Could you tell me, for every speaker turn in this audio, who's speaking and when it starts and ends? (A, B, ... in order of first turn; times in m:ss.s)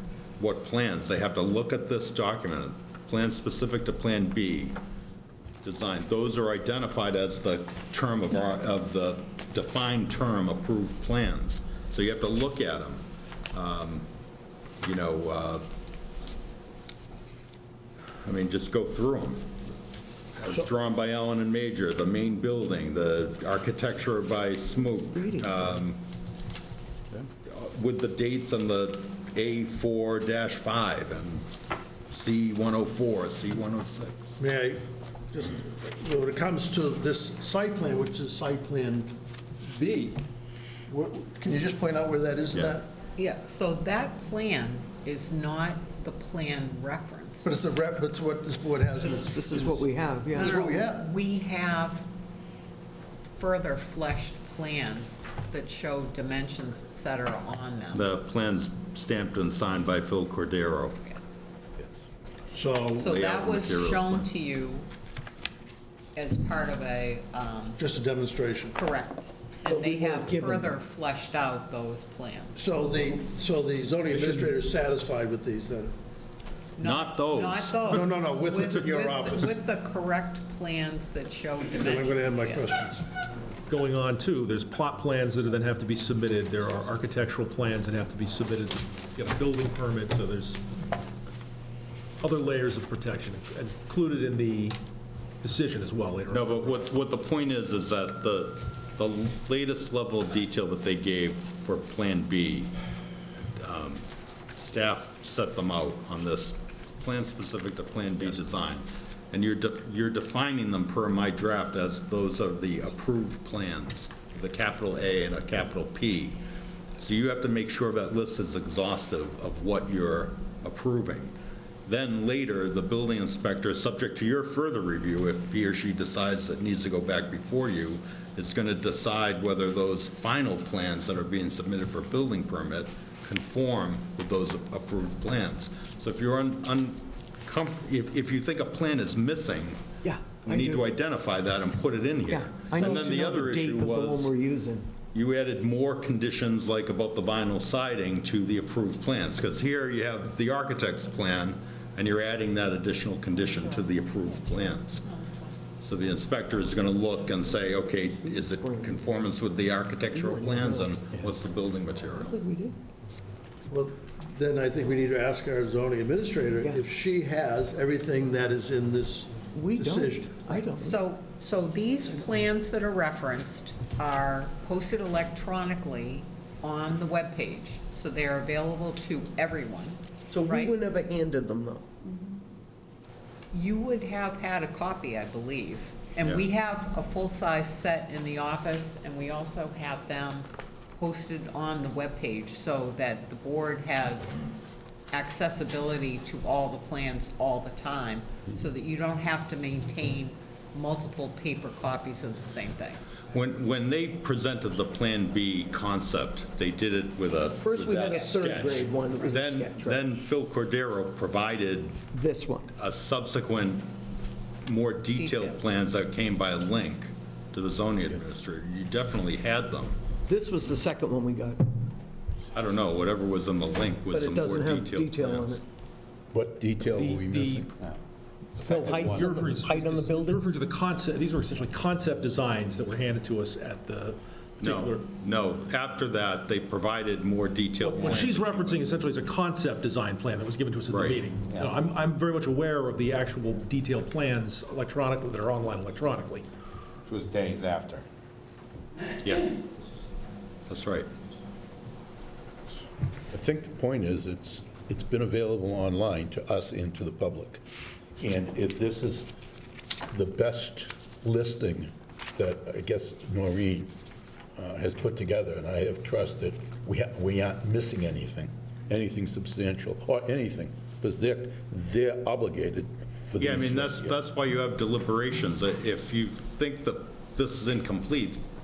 0:00.4-0:04.8 A
0:05.6-0:14.1 A
0:14.8-0:15.6 A
0:18.2-0:19.7 A
0:20.3-0:26.0 A
0:25.1-0:25.7 B
0:27.4-0:31.5 A
0:32.1-0:34.4 A
0:34.4-0:40.2 C
0:40.9-0:42.9 C
0:42.5-0:42.8 A
0:43.2-0:47.6 D
0:47.4-0:51.0 C
0:49.0-0:50.7 B
0:50.3-0:52.1 D
0:53.4-0:58.1 D
0:57.9-1:01.0 A
1:02.5-1:03.1 C
1:03.0-1:04.9 D
1:03.0-1:04.3 A
1:06.2-1:07.8 D
1:07.8-1:08.8 C
1:08.8-1:13.1 D
1:09.6-1:10.7 B
1:12.6-1:15.9 C
1:14.1-1:14.5 E
1:16.8-1:22.9 D
1:16.8-1:18.0 A
1:17.9-1:19.6 C
1:21.7-1:23.1 C
1:23.7-1:30.7 E
1:32.2-1:34.8 E
1:35.4-1:36.7 E
1:36.3-1:42.7 A
1:43.6-1:44.0 A
1:44.6-1:56.4 A
1:57.0-2:01.3 A
2:01.9-2:19.8 A
2:20.0-2:20.8 B
2:20.4-2:24.4 A
2:22.3-2:24.9 B
2:25.1-2:35.1 A
2:34.3-2:35.6 D
2:35.8-2:42.4 A
2:38.2-2:39.0 B
2:40.1-2:40.9 B
2:42.2-2:42.8 B
2:43.7-2:50.4 C
2:49.5-2:51.0 B
2:50.8-3:00.8 D
3:00.3-3:01.9 B
3:03.5-3:14.5 D
3:15.1-3:23.0 D
3:23.3-3:32.0 A
3:27.6-3:30.0 B
3:28.1-3:29.4 D
3:32.1-3:32.7 B
3:32.7-3:33.9 A
3:34.6-3:40.0 A
3:35.2-3:35.8 D
3:38.1-3:38.3 F
3:40.3-3:41.7 B
3:42.5-3:45.6 A
3:44.1-3:45.6 B
3:46.3-3:47.8 F
3:46.9-3:47.7 E
3:48.6-3:49.4 F
3:48.6-3:55.0 E
3:48.6-3:50.4 B
3:54.6-3:58.4 A
3:57.8-4:06.5 E
3:58.0-3:58.8 G
4:00.9-4:01.2 A
4:01.5-4:01.8 G
4:07.1-4:08.0 G
4:09.2-4:09.5 A
4:10.7-4:11.1 A
4:13.3-4:17.6 F
4:18.2-4:19.3 F
4:20.1-4:23.9 F
4:24.6-4:34.2 F
4:33.4-4:38.4 A